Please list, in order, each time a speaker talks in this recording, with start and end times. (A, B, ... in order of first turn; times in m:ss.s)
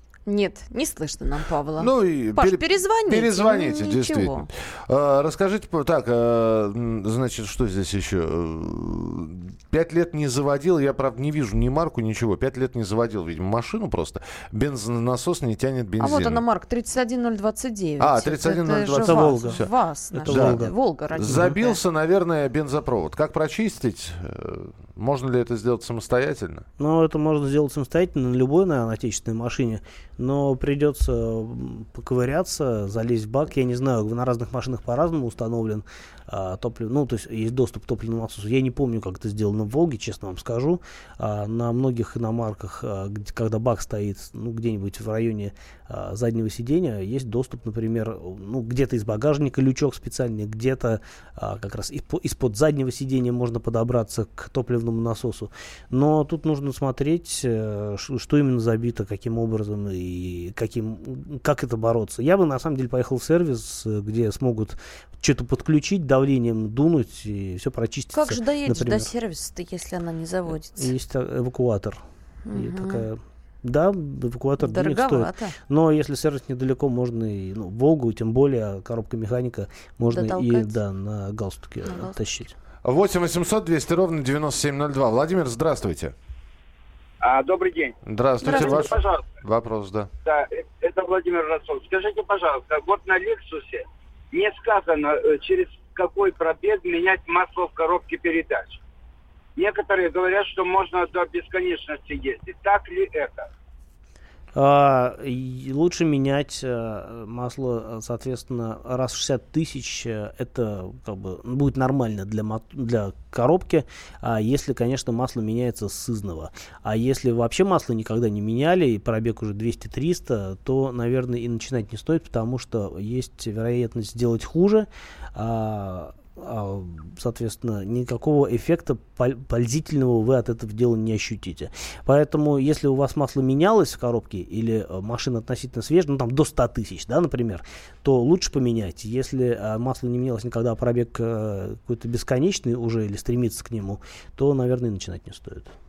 0:00.3-0:04.5 A
0:01.8-0:16.4 B
0:16.0-0:21.8 A
0:18.0-0:19.7 B
0:19.0-0:21.6 C
0:20.3-0:26.7 B
0:26.8-1:09.1 C
1:08.1-1:10.9 A
1:10.8-1:12.0 C
1:12.5-1:13.1 A
1:12.5-1:22.6 C
1:14.6-1:15.6 A
1:20.1-1:20.8 A
1:21.8-1:22.2 A
1:22.8-1:26.1 B
1:27.2-1:29.3 D
1:28.0-1:30.1 B
1:28.4-1:28.9 A
1:30.2-1:38.8 D
1:39.6-1:43.5 D
1:44.6-2:25.7 C